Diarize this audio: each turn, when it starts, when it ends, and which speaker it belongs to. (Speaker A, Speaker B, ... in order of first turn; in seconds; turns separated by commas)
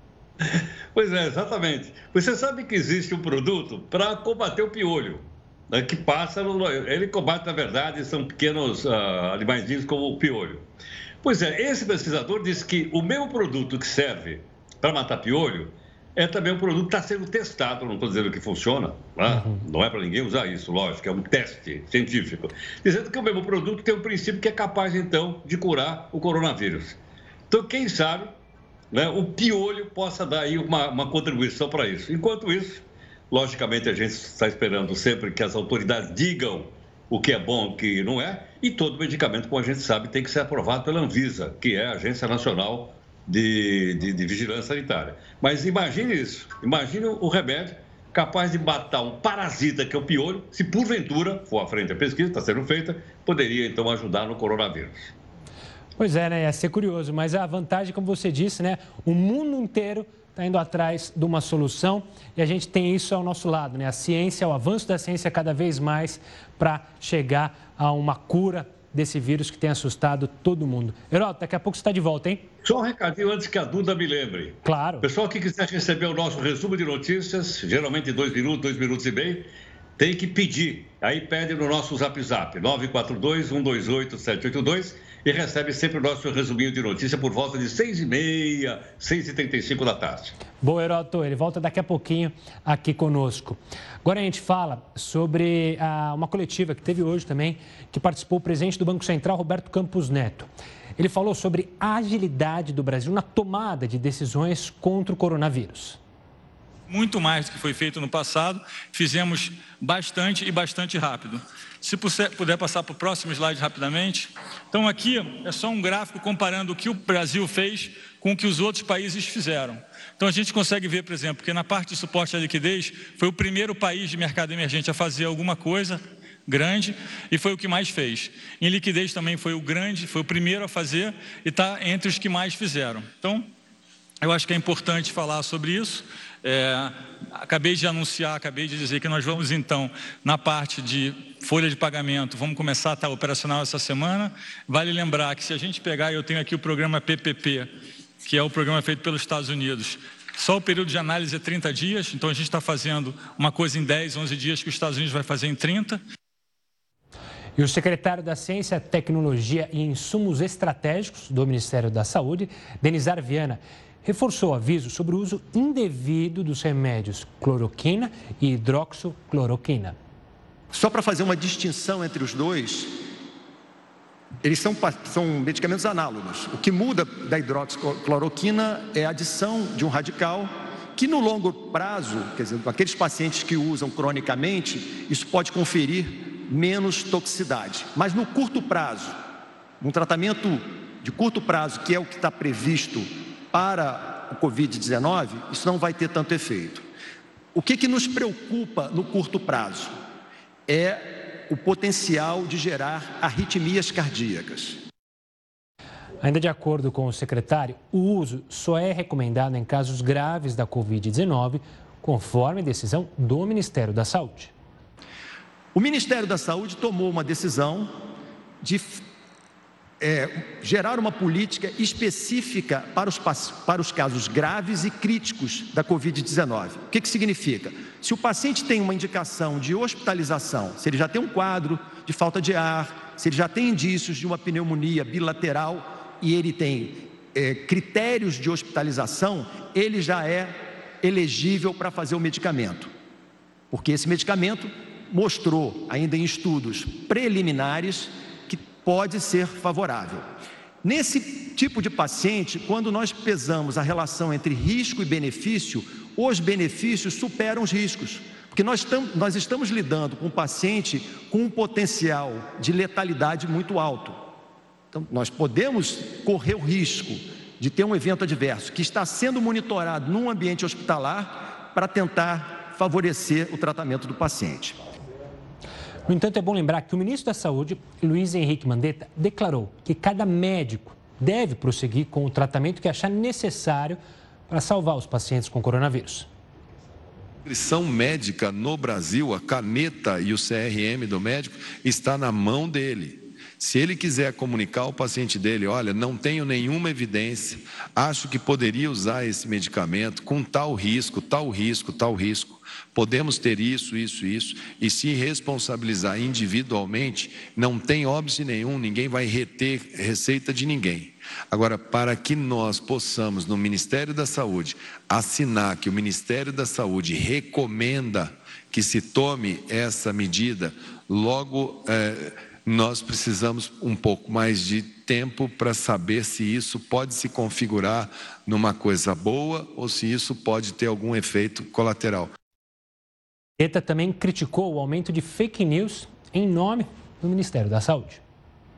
Speaker A: 0.4-10.6, Speaker A: 11.2-27.0, Speaker B: 19.3-19.6, Speaker A: 27.5-28.3, Speaker A: 28.9-55.1, Speaker B: 56.0-72.5, Speaker A: 72.6-90.3, Speaker B: 74.6-75.0, Speaker B: 90.6-106.0, Speaker C: 106.9-133.5, Speaker C: 134.2-147.7, Speaker C: 148.2-156.0, Speaker B: 157.6-169.9, Speaker D: 170.7-172.9, Speaker D: 174.4-189.2, Speaker D: 189.8-196.8, Speaker D: 197.5-199.9, Speaker D: 200.7-204.8, Speaker B: 206.2-214.5, Speaker D: 215.7-217.9, Speaker D: 218.6-219.0, Speaker D: 220.0-242.9, Speaker D: 243.7-250.2, Speaker D: 250.8-264.2, Speaker D: 264.9-274.8, Speaker B: 276.1-286.3, Speaker E: 287.4-332.3, Speaker B: 333.6-338.2